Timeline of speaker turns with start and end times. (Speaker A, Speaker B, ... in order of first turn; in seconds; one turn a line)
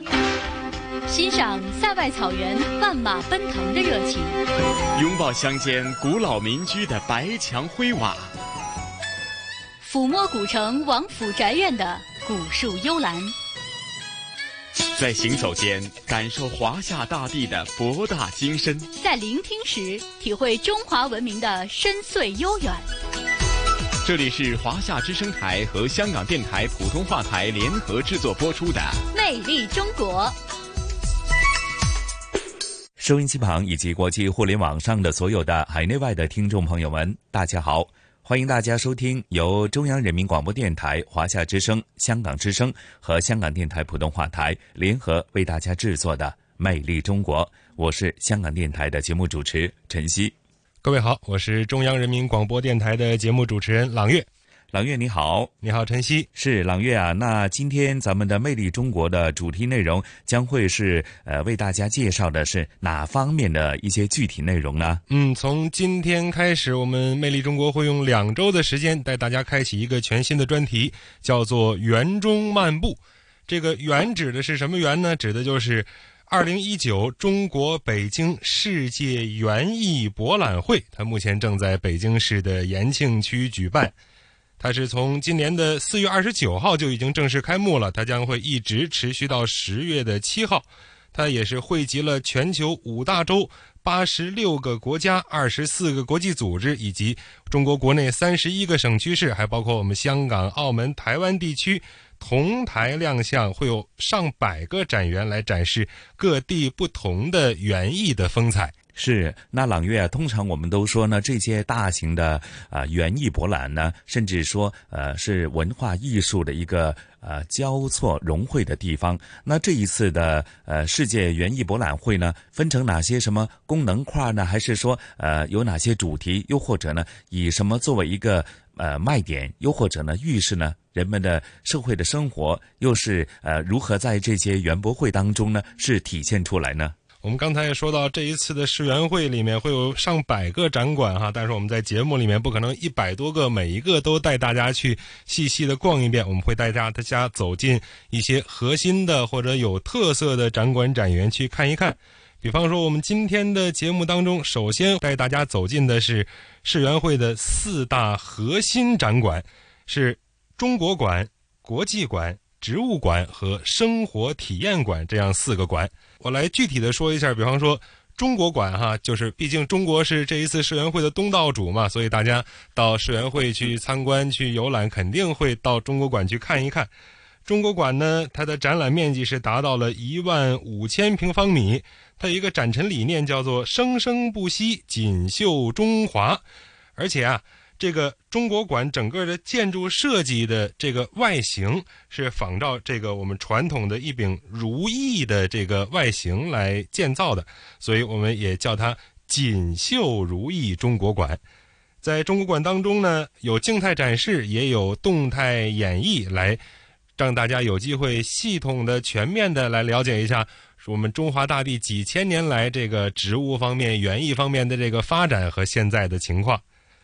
Speaker A: 1.1-4.4
Speaker B: 4.9-8.3
Speaker A: 9.8-13.3
Speaker B: 14.9-18.9
Speaker A: 19.0-22.9
Speaker B: 24.0-29.1
Speaker A: 29.1-30.3
Speaker C: 33.0-50.3
Speaker D: 50.8-54.3
Speaker C: 54.7-55.5
Speaker D: 55.6-56.2
Speaker C: 56.3-65.0
Speaker D: 65.1-83.9
Speaker D: 84.6-108.7
Speaker C: 108.9-137.0
Speaker D: 137.2-176.9
Speaker D: 177.4-186.4
Speaker D: 186.9-201.4
Speaker D: 202.0-206.6
Speaker D: 207.2-216.6